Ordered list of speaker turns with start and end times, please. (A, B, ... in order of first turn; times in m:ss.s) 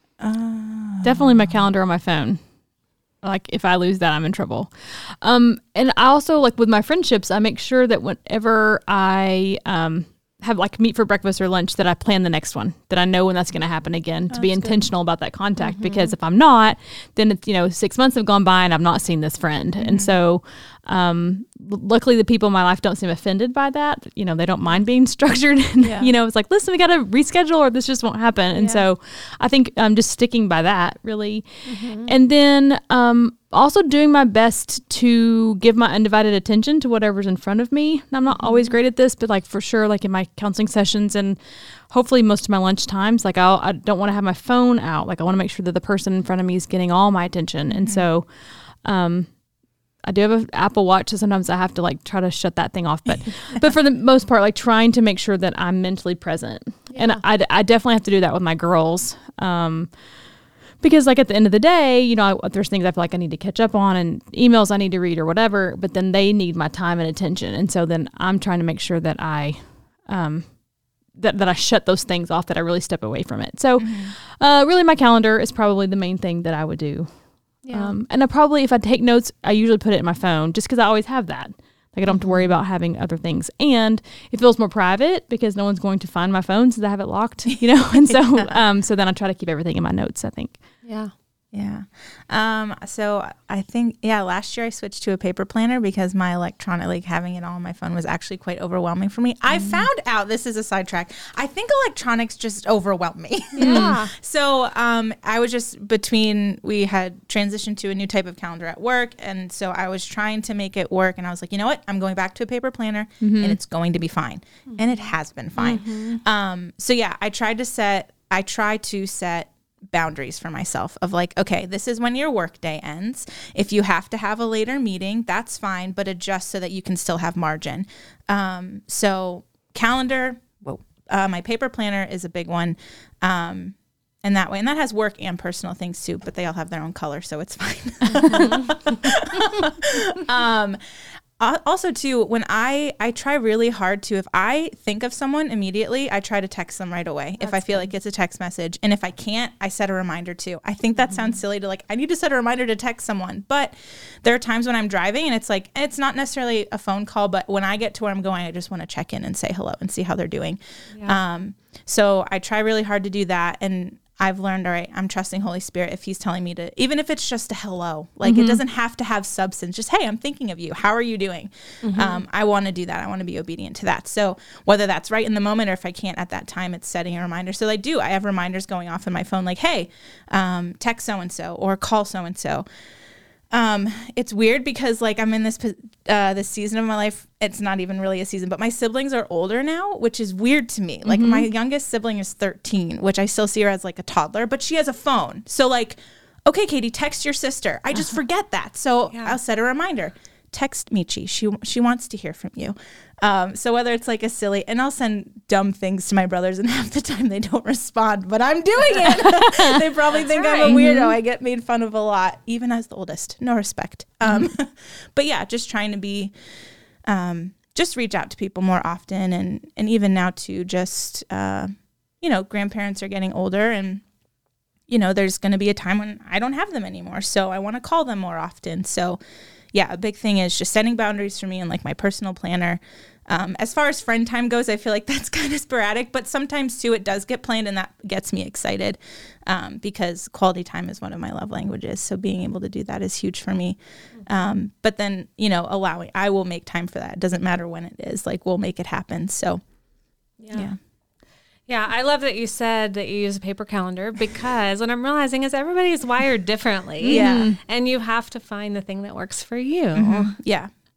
0:00.2-0:01.6 A
0:01.0-0:02.4 B
0:03.2-0:49.4 B
0:14.3-0:14.8 A
0:15.6-0:16.1 C
0:19.8-0:20.2 A
0:25.8-0:26.1 A
0:28.5-0:28.8 A
0:31.6-0:32.1 C
0:38.3-0:38.7 A
0:47.7-0:48.1 A
0:50.0-1:00.0 B
0:56.9-0:57.2 C
1:00.8-1:10.6 B
1:11.1-1:30.6 B
1:13.8-1:14.1 A
1:17.6-1:18.0 C
1:22.1-1:22.5 A
1:27.5-1:28.5 A
1:30.8-1:31.1 C
1:31.5-2:20.8 A
1:43.6-1:44.1 C
1:43.6-1:44.0 B
1:53.2-1:53.6 B
1:54.7-1:56.2 C
2:18.3-2:19.0 C
2:21.4-3:02.6 A
2:27.4-2:27.9 C
2:31.0-2:31.4 C
2:40.9-2:41.2 C
2:48.2-2:48.6 B
2:51.8-2:52.2 C
3:03.5-3:36.3 A
3:11.0-3:11.5 B
3:29.2-3:29.7 B
3:30.1-3:30.8 C
3:30.6-3:31.2 B
3:37.1-3:44.0 A
3:44.9-3:49.2 A
3:49.7-4:09.6 A
4:10.4-4:10.7 C
4:10.5-4:10.8 A
4:11.7-4:20.3 C
4:17.0-4:17.6 B
4:17.1-4:17.5 A
4:20.0-4:20.7 A